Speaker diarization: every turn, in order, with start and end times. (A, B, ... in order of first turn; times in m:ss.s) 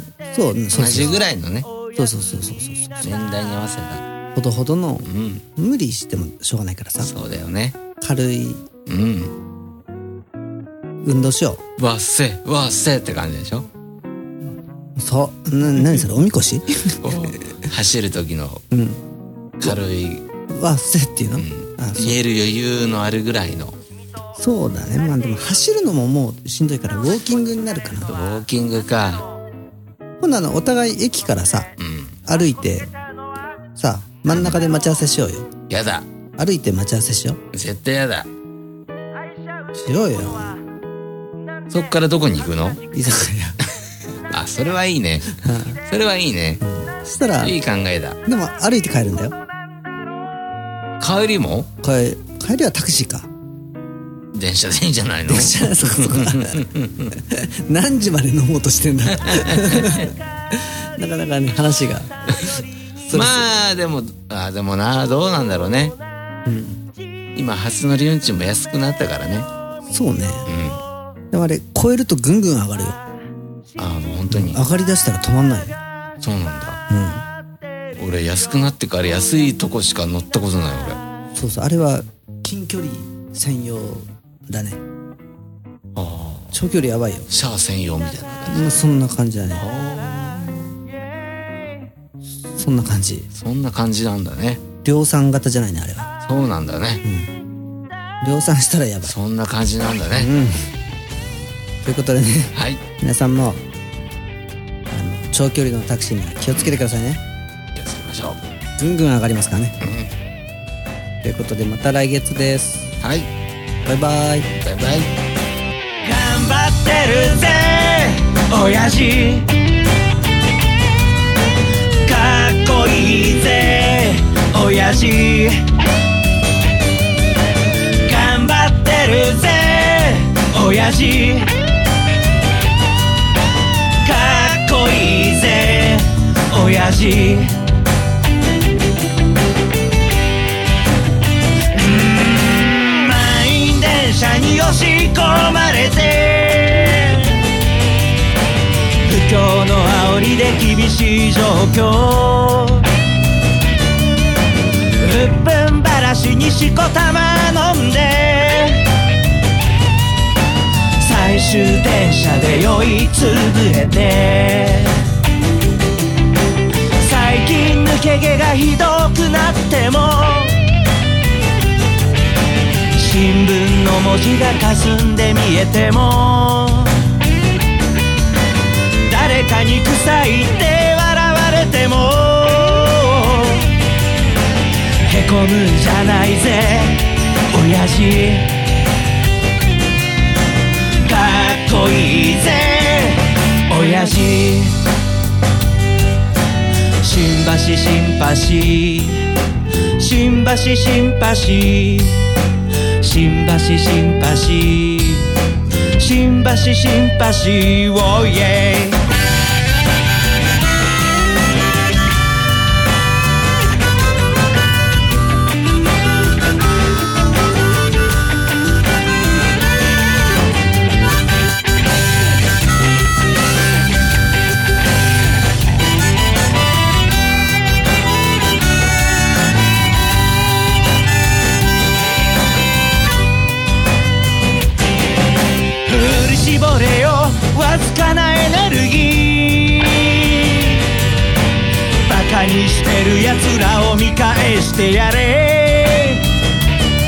0:00.3-0:01.1 A
0:00.7-0:01.7 B
0:01.9-0:03.2 A
0:03.0-0:04.0 B
0:04.3-0:07.1 A
0:05.0-0:05.4 B
0:07.0-0:07.8 B
0:08.0-0:08.6 A
0:08.9-0:09.3 B
0:11.0-0:11.6 A
0:11.8-0:13.7 B
0:15.0-0:17.2 A
0:17.0-0:18.6 B
0:18.7-0:19.0 A
0:19.6-0:20.2 B
0:20.5-0:22.2 A
0:21.4-0:23.8 B
0:24.4-0:28.1 A
0:28.1-0:29.2 B
0:30.2-0:31.7 A
0:31.8-0:32.2 B
0:32.2-0:32.9 A
0:33.8-0:35.5 A
0:35.7-0:36.1 B
0:36.4-0:37.4 A
0:37.5-0:38.3 B
0:39.8-0:40.6 A
0:41.7-0:42.8 B
0:42.9-0:43.6 A
0:44.3-0:45.3 B
0:45.3-0:45.8 A
0:45.8-0:46.6 B
0:46.6-0:47.6 A
0:47.4-0:48.2 B
0:48.2-0:49.4 A
0:51.0-0:51.7 B
0:51.8-0:53.3 A
0:54.3-0:57.1 B
0:55.3-1:03.5 A
0:59.1-1:00.1 B
1:03.1-1:06.0 B
1:06.4-1:06.8 A
1:07.3-1:09.5 B
1:09.9-1:10.5 A
1:10.5-1:10.8 B
1:11.3-1:13.0 A
1:13.8-1:14.6 B
1:14.3-1:15.8 A
1:16.2-1:16.8 B
1:16.9-1:17.2 A
1:17.9-1:21.0 B
1:21.3-1:24.8 A
1:25.9-1:26.5 B
1:26.5-1:27.3 A
1:27.3-1:28.9 B
1:28.5-1:29.6 A
1:29.6-1:30.7 B
1:32.6-1:33.3 A
1:33.3-1:34.6 B
1:34.8-1:36.1 A
1:36.2-1:37.0 B
1:37.0-1:37.3 A
1:38.2-1:39.1 A
1:39.0-1:40.3 B
1:40.1-1:40.7 A
1:41.8-1:43.6 A
1:42.5-1:42.8 B
1:44.9-1:47.2 A
1:47.7-1:48.4 B
1:48.8-1:49.8 A
1:49.8-1:50.1 B
1:51.2-1:52.9 A
1:53.0-1:53.3 B
1:53.8-1:54.5 A
1:54.6-1:55.1 B
1:56.0-1:59.5 C
2:02.0-2:05.6 C
2:08.0-2:11.5 C
2:14.0-2:17.6 C
2:21.7-2:27.4 C
2:29.0-2:32.9 C
2:35.0-2:38.8 C
2:41.0-2:45.1 C
2:46.9-2:50.6 C
2:52.9-2:57.1 C
2:59.0-3:03.7 C
3:05.1-3:08.5 C
3:11.0-3:14.8 C
3:17.0-3:19.3 C
3:20.0-3:22.2 C
3:23.0-3:25.3 C
3:26.0-3:29.0 C
3:55.8-4:00.8 C
4:01.9-4:06.2 C